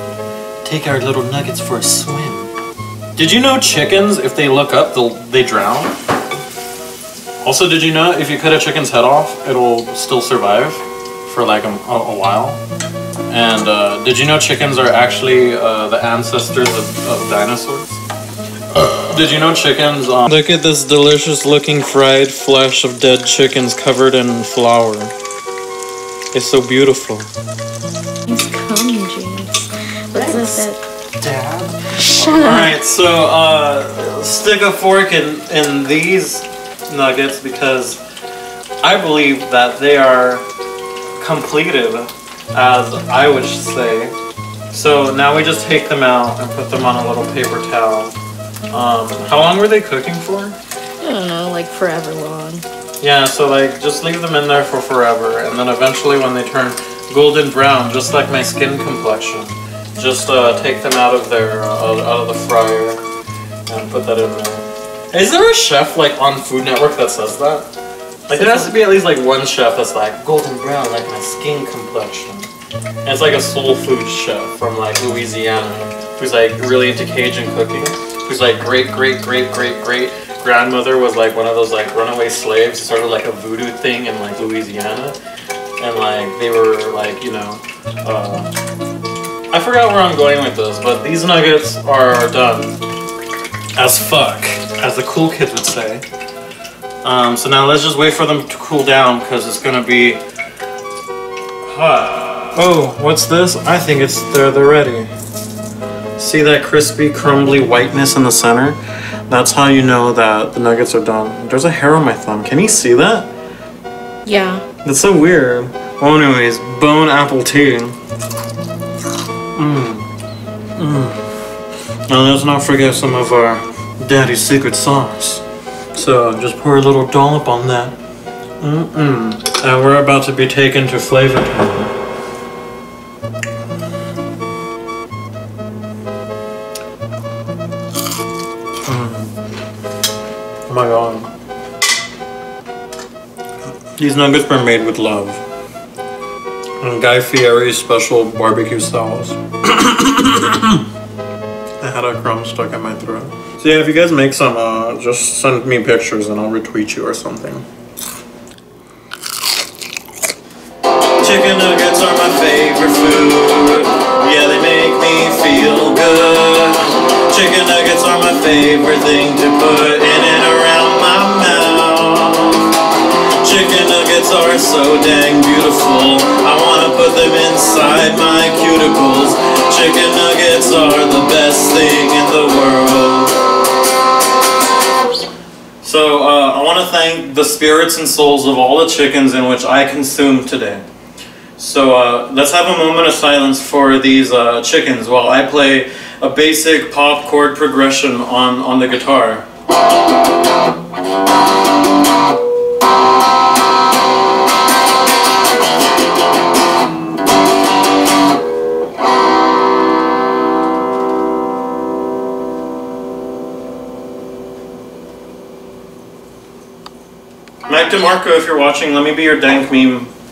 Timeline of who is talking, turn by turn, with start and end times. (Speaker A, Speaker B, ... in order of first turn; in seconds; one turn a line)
Speaker A: 0.6-2.5
Speaker A: 3.1-6.0
Speaker A: 7.4-12.6
Speaker A: 13.3-18.0
Speaker A: 18.7-25.1
Speaker A: 26.3-27.3
Speaker B: 28.3-30.8
Speaker A: 30.4-30.6
Speaker A: 31.2-38.0
Speaker B: 32.1-32.7
Speaker A: 38.8-40.5
Speaker A: 41.2-44.1
Speaker A: 44.7-48.1
Speaker A: 48.7-50.6
Speaker B: 51.0-52.6
Speaker A: 53.0-63.0
Speaker A: 63.7-67.7
Speaker A: 68.3-72.5
Speaker B: 68.3-68.7
Speaker A: 73.0-85.2
Speaker A: 85.8-88.5
Speaker A: 89.5-92.8
Speaker A: 93.8-96.0
Speaker A: 97.0-100.2
Speaker A: 101.7-105.1
Speaker A: 106.2-113.3
Speaker B: 114.2-114.6
Speaker A: 114.8-118.0
Speaker A: 119.5-120.1
Speaker A: 120.8-121.2
Speaker A: 122.1-128.0
Speaker A: 128.6-131.9
Speaker A: 138.8-139.3
Speaker A: 140.7-141.3
Speaker A: 143.9-145.4
Speaker A: 146.8-150.8
Speaker A: 151.8-157.6
Speaker A: 161.2-183.4
Speaker A: 185.8-190.8
Speaker A: 191.6-199.4
Speaker A: 217.7-220.1